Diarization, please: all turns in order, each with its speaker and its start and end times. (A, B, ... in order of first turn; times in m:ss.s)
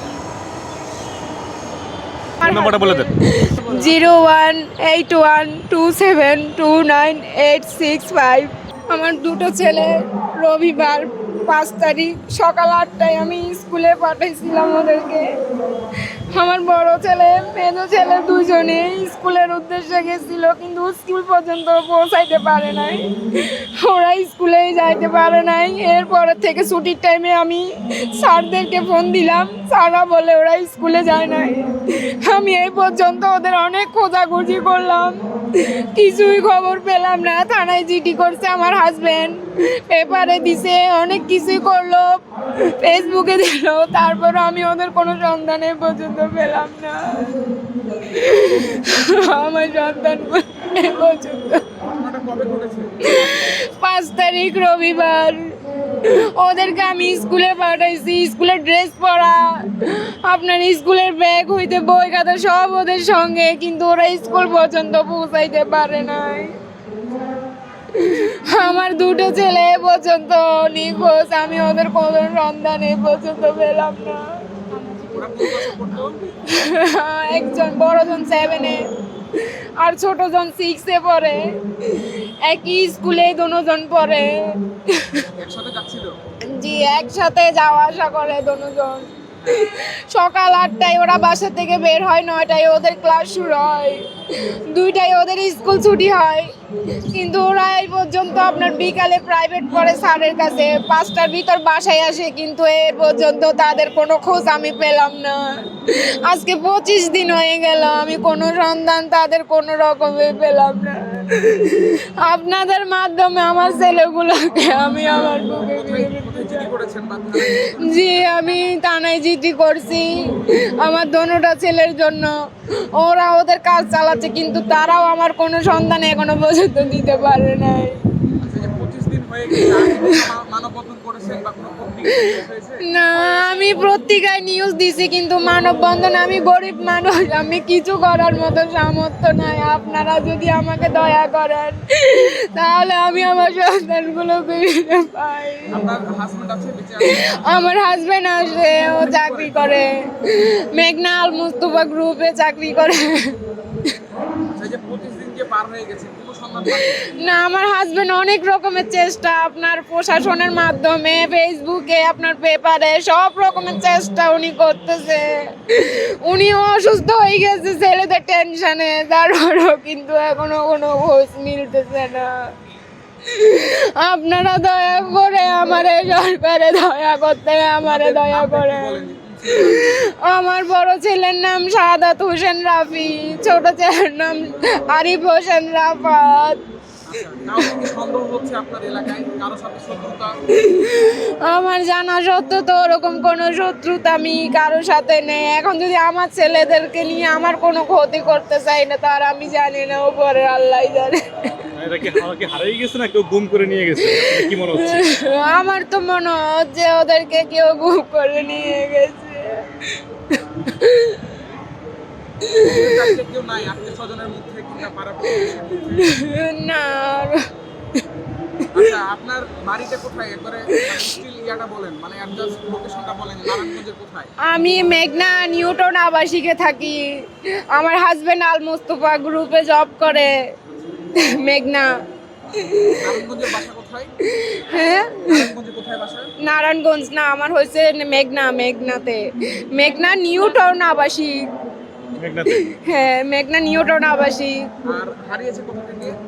0:02.4-0:03.1 A
0:02.4-0:15.3 B
0:16.3-0:51.8 B
0:51.9-0:53.4 C
0:53.0-1:06.6 B
1:07.9-1:15.7 B
1:15.0-1:16.4 C
1:16.4-1:25.2 B
1:25.3-1:26.1 C
1:26.5-1:56.7 B
1:29.4-1:29.6 C
1:55.5-1:58.5 C
1:57.3-2:08.0 B
2:08.4-2:12.8 C
2:09.5-2:10.2 B
2:12.1-2:25.8 B
2:25.7-2:27.7 C
2:27.0-2:34.0 B
2:29.0-2:29.5 C
2:34.5-2:37.0 C
2:36.7-2:52.5 B
2:53.2-3:06.6 B
2:57.8-2:59.8 C
3:07.0-3:10.4 C
3:10.5-3:21.7 B
3:21.7-3:25.1 A
3:24.0-3:31.4 B
3:32.4-3:33.1 B
3:32.6-3:36.2 C
3:35.3-3:38.0 B
3:38.6-3:39.0 B
3:38.7-3:44.3 C
3:40.7-3:41.2 B
3:44.4-3:50.5 B
3:51.1-3:52.0 B
3:52.5-3:53.3 B
3:52.9-3:54.1 C
3:54.2-3:55.5 B
3:55.2-3:56.3 C
3:56.4-4:01.5 B
4:02.2-4:02.6 A
4:02.4-4:04.7 B
4:04.8-4:06.2 C